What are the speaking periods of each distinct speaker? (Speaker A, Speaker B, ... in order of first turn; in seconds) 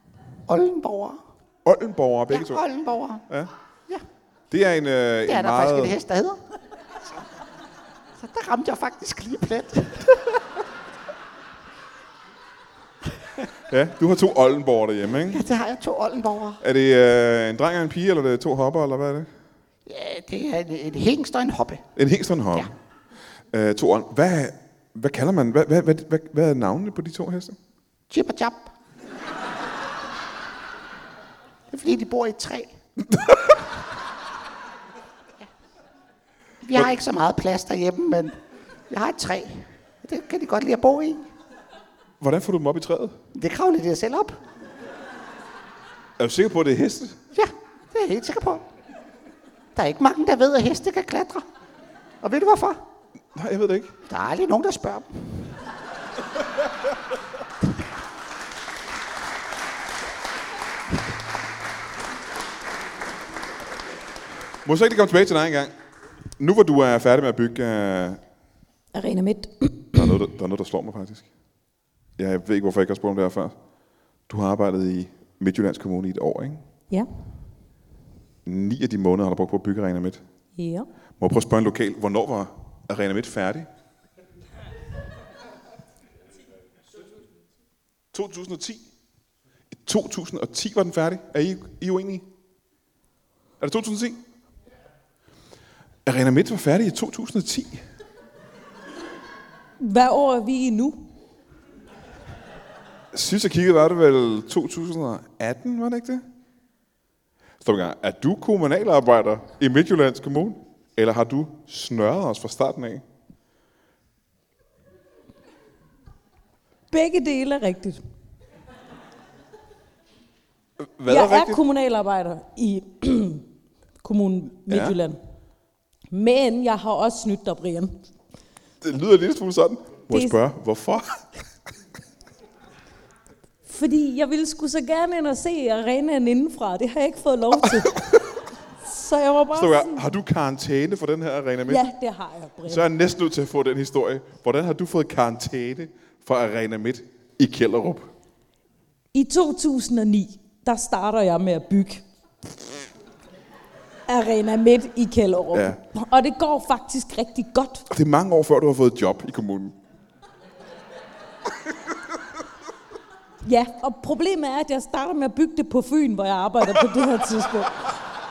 Speaker A: 0.5-1.2, 2.3-3.3, 5.3-6.4, 8.2-10.6, 15.3-16.6, 19.9-21.9, 28.1-28.7, 31.7-32.7, 36.6-38.4, 38.9-41.3, 43.4-44.4, 47.3-48.6, 49.8-51.5, 52.2-52.8, 54.1-55.6
Speaker B: 1.6-2.6, 4.5-6.0, 13.7-15.4, 16.6-19.3, 22.0-22.7, 23.5-27.6, 33.1-33.6, 42.2-43.2, 46.2-47.2, 53.3-53.9, 64.7-65.7, 66.4-68.2, 69.9-71.3, 72.2-73.6, 74.3-76.6, 78.5-80.2, 81.2-83.7, 88.1-88.8, 89.7-92.3, 93.6-94.2, 96.0-97.8, 103.1-106.2, 107.6-113.0, 120.8-121.6, 124.7-125.0, 128.8-131.3, 137.6-138.2, 139.5-141.9, 142.7-148.1, 155.5-155.8, 157.9-159.8
Speaker C: 68.9-70.1, 80.6-80.9, 99.8-101.0, 116.9-118.0, 121.1-123.4, 124.0-125.2, 126.1-128.0, 130.1-130.4, 133.7-138.1, 138.8-140.1, 141.7-142.9, 149.1-152.0, 154.1-157.9, 163.4-167.9